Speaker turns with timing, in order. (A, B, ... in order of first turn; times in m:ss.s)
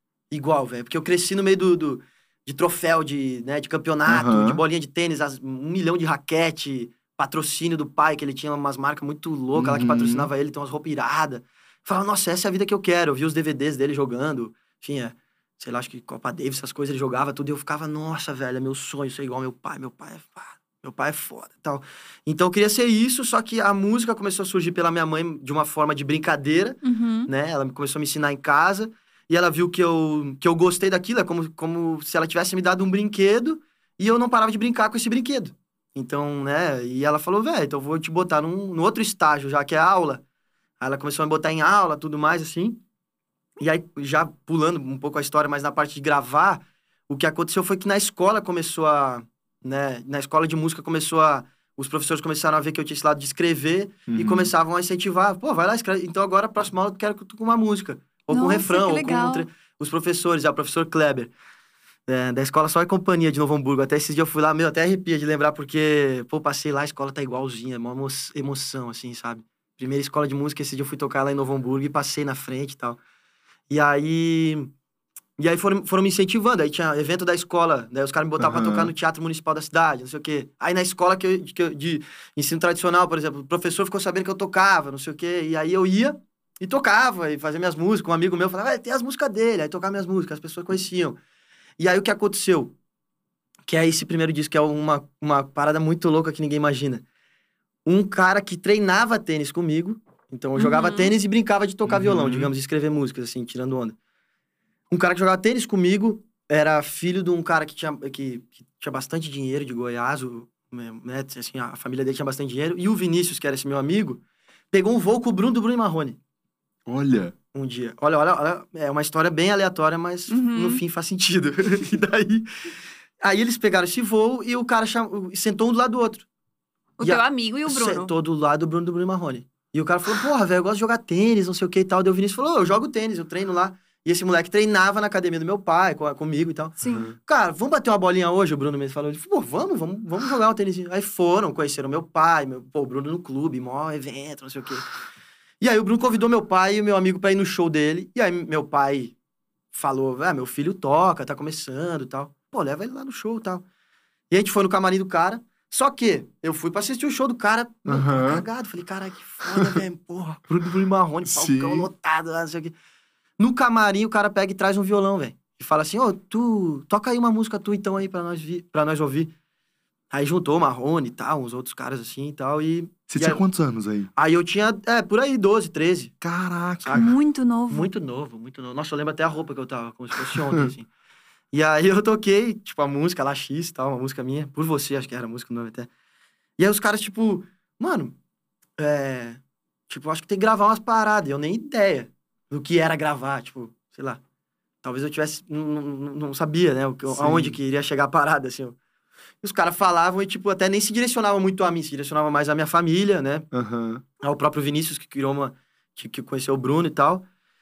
0:00.3-0:40.2 A
0:04.1-0:04.6 B
0:09.5-0:10.3 B
0:26.8-0:27.3 C
0:40.8-0:42.8 A
0:43.6-1:01.3 A
0:54.1-0:54.5 B
0:58.3-0:59.5 C
1:02.1-1:13.0 A
1:13.7-1:14.7 A
1:15.4-1:31.2 A
1:18.4-1:18.9 B
1:31.8-1:32.8 A
1:33.7-1:37.0 A
1:37.8-1:44.0 A
1:40.6-1:41.1 C
1:41.8-1:42.5 B
1:44.9-1:54.2 A
1:54.7-1:56.2 A
1:56.9-1:57.4 B
1:57.5-2:02.5 A
2:00.3-2:00.8 C
2:03.2-2:06.3 A
2:07.0-2:08.1 C
2:07.0-2:24.9 A
2:16.8-2:17.1 C
2:25.6-2:29.2 A
2:29.7-2:33.6 A
2:34.3-2:42.8 A
2:37.9-2:38.4 B
2:39.5-2:39.8 B
2:41.3-2:41.9 B
2:43.4-2:49.3 A
2:50.1-2:53.4 A
2:53.1-2:54.1 B
2:54.2-2:56.1 A
2:56.2-2:57.1 B
2:56.8-2:57.1 A
2:56.9-2:57.9 C
2:57.7-3:00.9 A
3:01.5-3:05.9 A
3:06.6-3:08.2 A
3:08.8-3:14.2 A
3:14.8-3:18.8 A
3:17.1-3:17.6 B
3:19.4-3:23.5 A
3:23.5-3:24.0 B
3:24.2-3:27.3 A